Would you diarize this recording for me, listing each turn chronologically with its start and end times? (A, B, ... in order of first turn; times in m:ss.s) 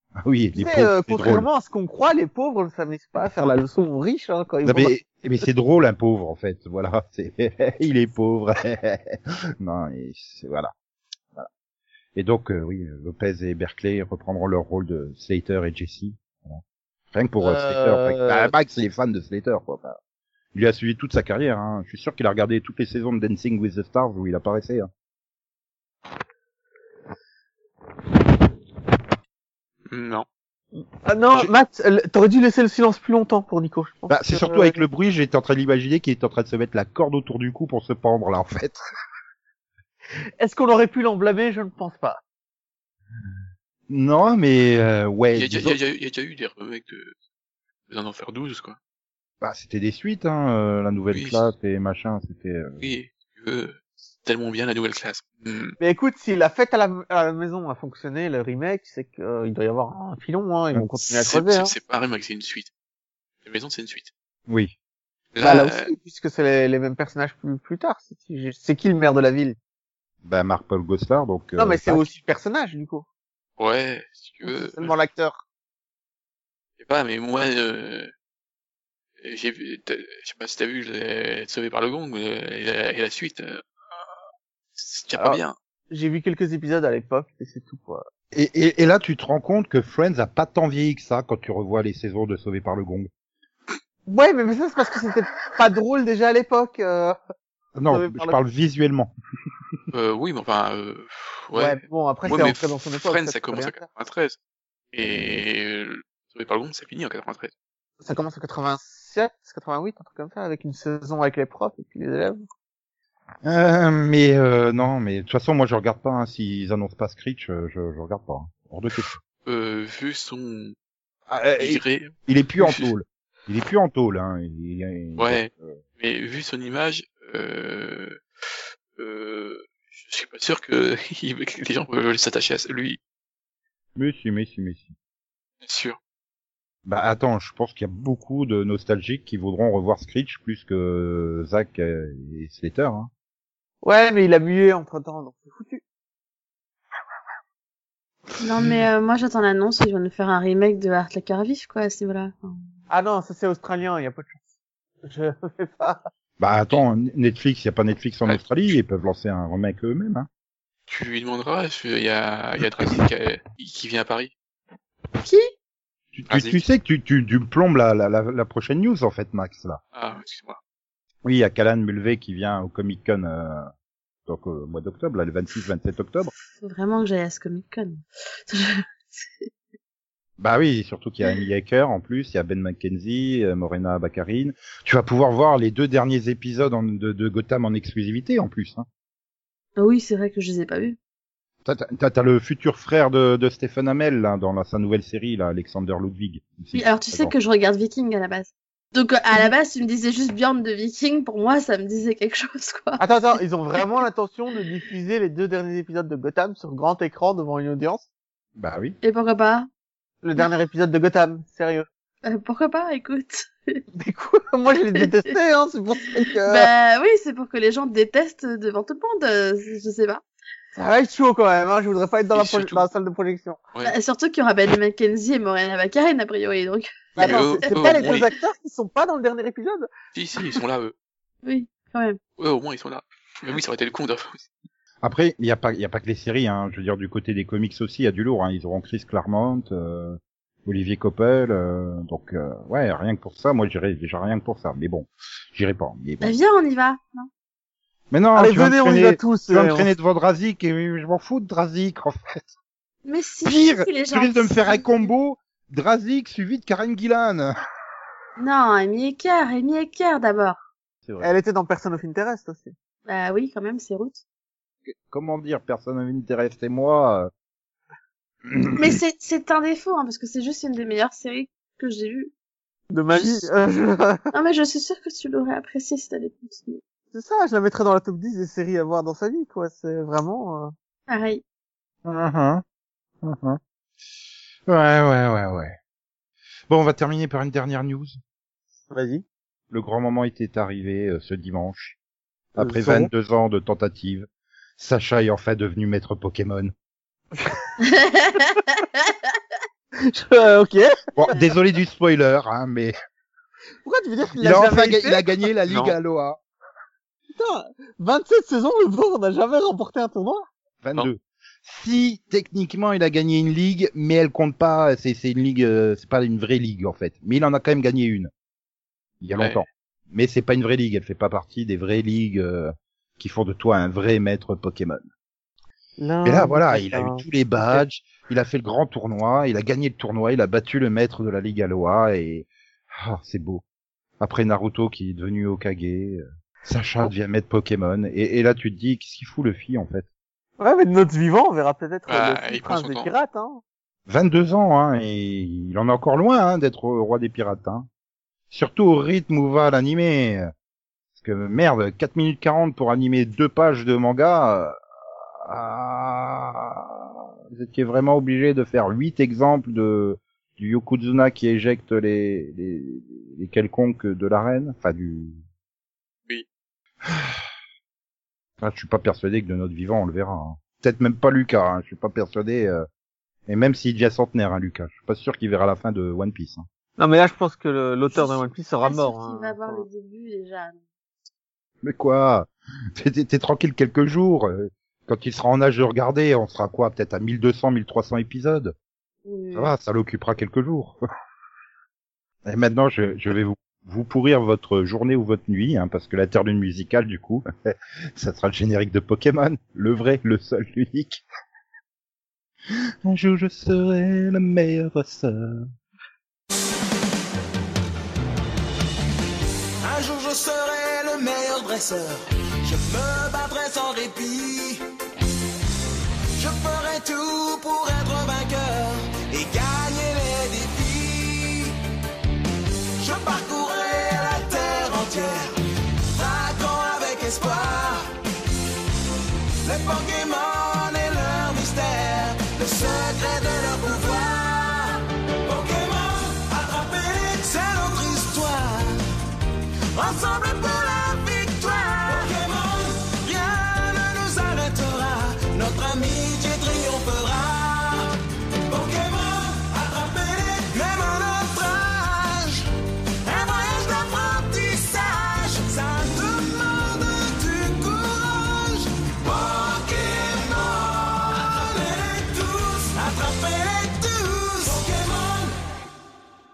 0:00.2-0:01.5 A
0:00.6-0:05.0 B
0:04.6-0:10.7 A
0:12.2-0:16.6 A
0:17.1-0:20.0 A
0:17.4-0:18.5 B
0:20.5-0:24.9 A
0:29.9-0:30.3 C
0:30.8-0:34.8 B
0:34.1-0:38.8 A
0:40.4-0:42.2 B
0:43.9-0:45.8 A
0:45.3-0:47.2 C
0:47.9-0:48.8 C
0:49.4-0:52.8 A
0:51.1-0:51.4 C
0:52.8-0:55.8 C
0:55.8-1:01.7 B
1:01.0-1:02.7 C
1:03.4-1:04.1 C
1:04.5-1:04.7 A
1:05.3-1:05.9 C
1:05.4-1:09.6 B
1:10.2-1:12.1 A
1:11.6-1:13.1 B
1:13.6-1:14.9 C
1:14.4-1:15.4 B
1:16.8-1:18.1 C
1:19.2-1:23.7 C
1:24.8-1:25.6 C
1:25.2-1:28.1 B
1:28.3-1:33.1 A
1:34.1-1:37.2 B
1:37.8-1:39.1 A
1:37.9-1:38.4 B
1:39.9-1:44.4 C
1:41.6-1:43.8 B
1:44.9-1:47.5 C
1:45.0-1:45.4 A
1:48.0-1:52.4 B
1:53.4-1:59.2 A
1:59.5-2:00.8 C
2:01.3-2:05.8 A
2:01.6-2:02.9 C
2:05.2-2:08.2 C
2:09.0-2:13.0 C
2:14.0-2:14.9 A
2:15.6-2:16.0 C
2:16.9-2:23.1 A
2:23.8-2:25.8 B
2:28.4-2:32.5 D
2:32.9-2:34.4 B
2:35.0-2:36.0 B
2:36.4-2:40.3 A
2:40.9-2:44.3 C
2:45.2-2:45.5 D
2:46.1-2:49.8 A
2:46.3-2:46.6 C
2:49.9-2:50.6 C
2:51.2-2:53.7 A
2:54.3-2:56.3 A
2:56.6-2:59.5 D
3:00.4-3:08.8 A
3:09.8-3:11.0 D
3:11.6-3:17.4 A
3:16.7-3:23.0 D
3:23.0-3:28.1 B
3:28.6-3:29.0 A
3:29.0-3:29.7 D
3:30.2-3:31.9 B
3:32.2-3:33.8 D
3:34.0-3:36.7 B
3:36.4-3:40.2 D
3:40.8-3:43.6 B
3:42.3-3:42.9 C
3:43.8-3:48.3 D
3:47.2-3:49.9 B
3:47.2-3:48.3 C
3:50.1-3:50.9 C
3:51.4-3:52.2 D
3:52.4-3:54.4 C
3:55.0-4:06.4 A
4:06.2-4:07.3 D
4:08.1-4:12.5 A
4:08.4-4:09.9 B
4:13.0-4:15.1 D
4:13.4-4:17.5 A
4:18.4-4:20.6 D
4:21.2-4:22.8 B
4:23.1-4:24.2 D
4:25.1-4:27.3 A
4:28.5-4:29.0 A
4:28.8-4:32.3 D
4:32.9-4:34.3 B
4:34.3-4:36.8 D
4:37.1-4:40.7 B
4:41.1-4:41.4 D
4:42.0-4:42.6 A
4:43.2-4:43.6 A
4:44.7-4:45.8 A
4:46.7-4:48.2 A
4:48.9-4:49.2 B
4:49.7-4:52.0 A
4:52.6-4:54.3 A
4:52.6-4:53.1 B
4:54.8-4:56.7 A
4:57.4-4:57.7 B
4:57.8-4:59.4 D
5:00.0-5:01.1 B
5:01.2-5:02.9 A
5:03.8-5:05.9 B
5:04.4-5:06.4 A
5:07.4-5:10.5 B
5:10.8-5:18.3 A
5:19.2-5:25.0 A
5:26.0-5:27.8 B
5:26.2-5:33.6 A
5:34.2-5:40.1 A
5:40.6-5:43.6 B
5:42.1-5:43.1 C
5:44.1-5:47.9 A
5:48.5-5:50.5 A
5:51.2-5:54.8 A
5:55.4-6:05.4 A
6:07.1-6:07.4 A
6:08.6-6:12.9 A
6:13.5-6:16.6 A
6:17.0-6:19.9 B
6:18.1-6:20.8 D
6:21.8-6:28.8 A
6:29.3-6:29.7 D
6:29.5-6:31.0 A
6:32.5-6:41.2 A
6:43.0-6:45.7 A
6:49.8-6:54.8 E
6:56.4-7:01.8 E
7:03.0-7:05.5 E
7:06.1-7:08.1 E
7:09.6-7:19.0 E
7:19.9-7:28.1 E
7:28.7-7:32.7 E
7:33.2-7:45.6 E